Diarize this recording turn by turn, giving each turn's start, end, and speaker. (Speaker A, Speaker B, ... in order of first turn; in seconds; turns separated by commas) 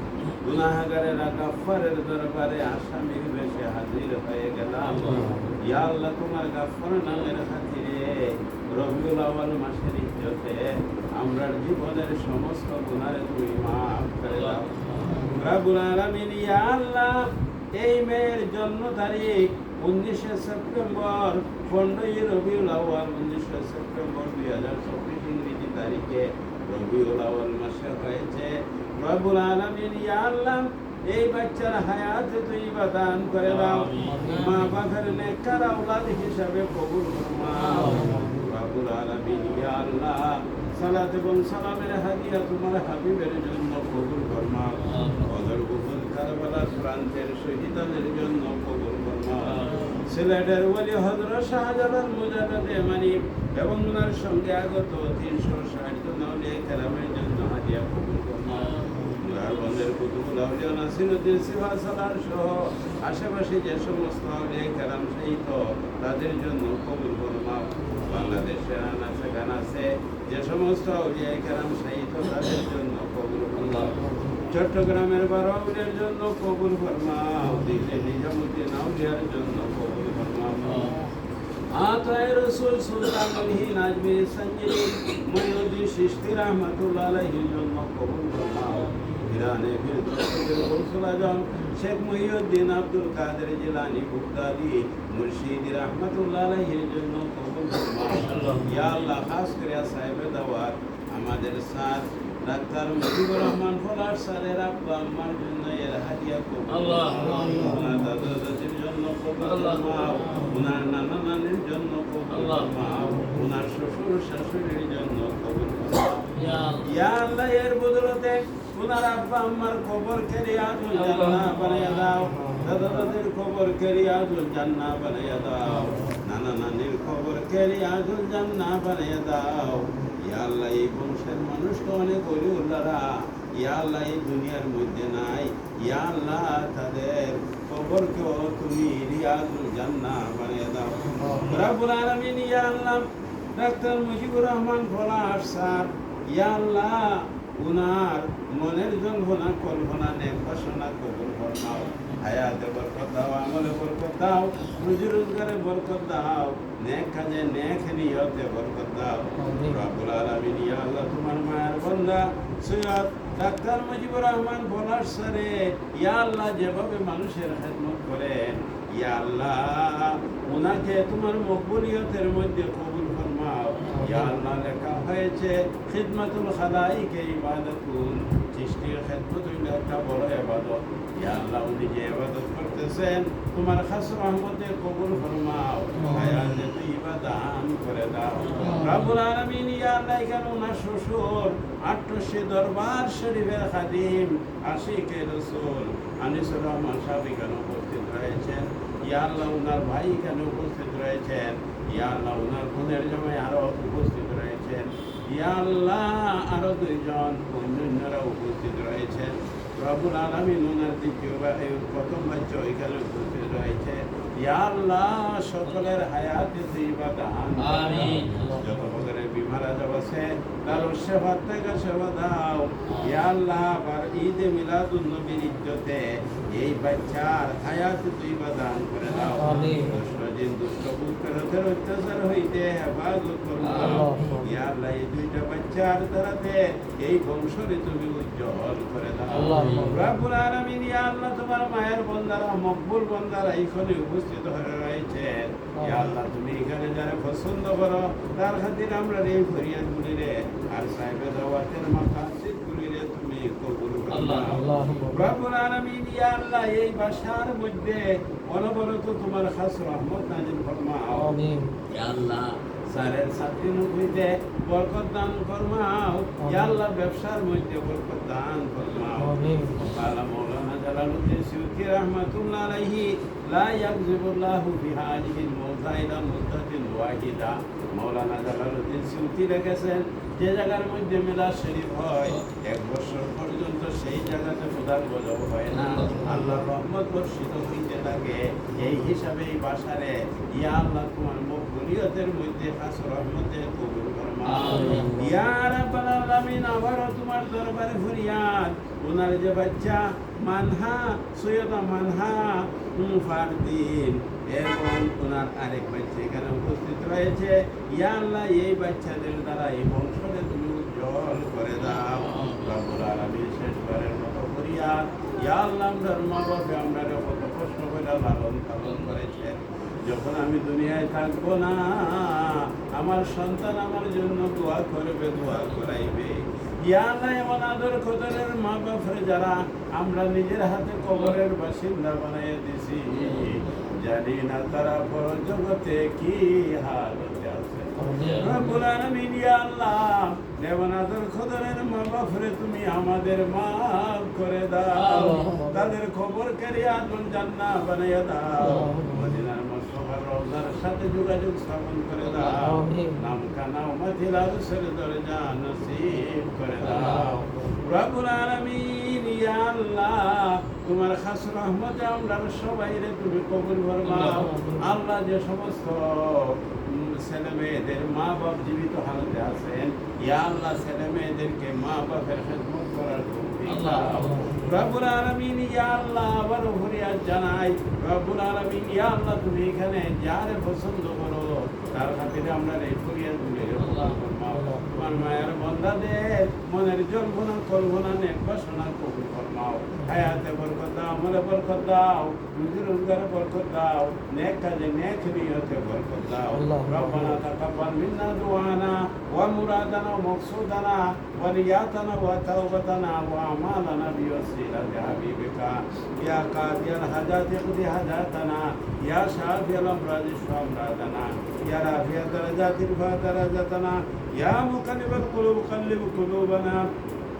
Speaker A: 0.4-8.2, Speaker B: 4.9-5.4, Speaker A: 8.7-14.7, Speaker B: 14.3-15.4, Speaker A: 15.3-80.9, Speaker B: 33.5-34.8, Speaker B: 37.6-38.3, Speaker C: 37.8-38.5, Speaker B: 44.8-45.4, Speaker B: 49.4-50.1, Speaker B: 58.5-59.2, Speaker B: 68.1-68.4, Speaker B: 73.6-73.9, Speaker B: 80.7-81.0, Speaker A: 81.7-116.3, Speaker B: 88.9-89.3, Speaker B: 98.2-99.2, Speaker B: 106.7-107.7, Speaker C: 107.3-108.3, Speaker B: 109.4-110.7, Speaker B: 112.3-113.2, Speaker B: 116.3-116.9, Speaker C: 116.4-116.7, Speaker A: 116.8-133.1, Speaker B: 121.0-122.2, Speaker C: 122.4-122.9, Speaker A: 133.6-261.3, Speaker B: 141.0-141.5, Speaker C: 173.9-174.3, Speaker C: 186.0-186.3, Speaker B: 188.4-189.1, Speaker B: 217.6-218.7, Speaker C: 217.9-218.7, Speaker B: 222.9-223.2, Speaker B: 229.1-229.9, Speaker C: 229.3-229.9, Speaker B: 233.6-234.3, Speaker C: 233.8-234.5, Speaker B: 239.3-240.0, Speaker C: 239.3-240.2, Speaker C: 245.8-246.1, Speaker B: 254.1-254.8, Speaker C: 254.5-255.3, Speaker C: 261.3-261.8, Speaker A: 261.9-416.9, Speaker C: 269.2-269.9, Speaker B: 285.7-286.5, Speaker B: 294.4-295.1, Speaker C: 294.7-295.4, Speaker B: 311.8-312.9, Speaker B: 318.8-319.2, Speaker B: 333.1-333.9, Speaker C: 338.0-338.8, Speaker B: 338.0-338.7, Speaker B: 344.9-345.6, Speaker C: 345.2-345.9, Speaker B: 348.6-348.9, Speaker C: 348.7-349.3, Speaker B: 352.2-352.6, Speaker C: 352.7-353.2, Speaker B: 356.8-357.4, Speaker C: 356.9-357.5, Speaker B: 364.0-364.5, Speaker C: 364.4-364.8, Speaker B: 373.7-374.6, Speaker C: 374.1-374.8, Speaker B: 383.8-384.2, Speaker C: 396.7-397.3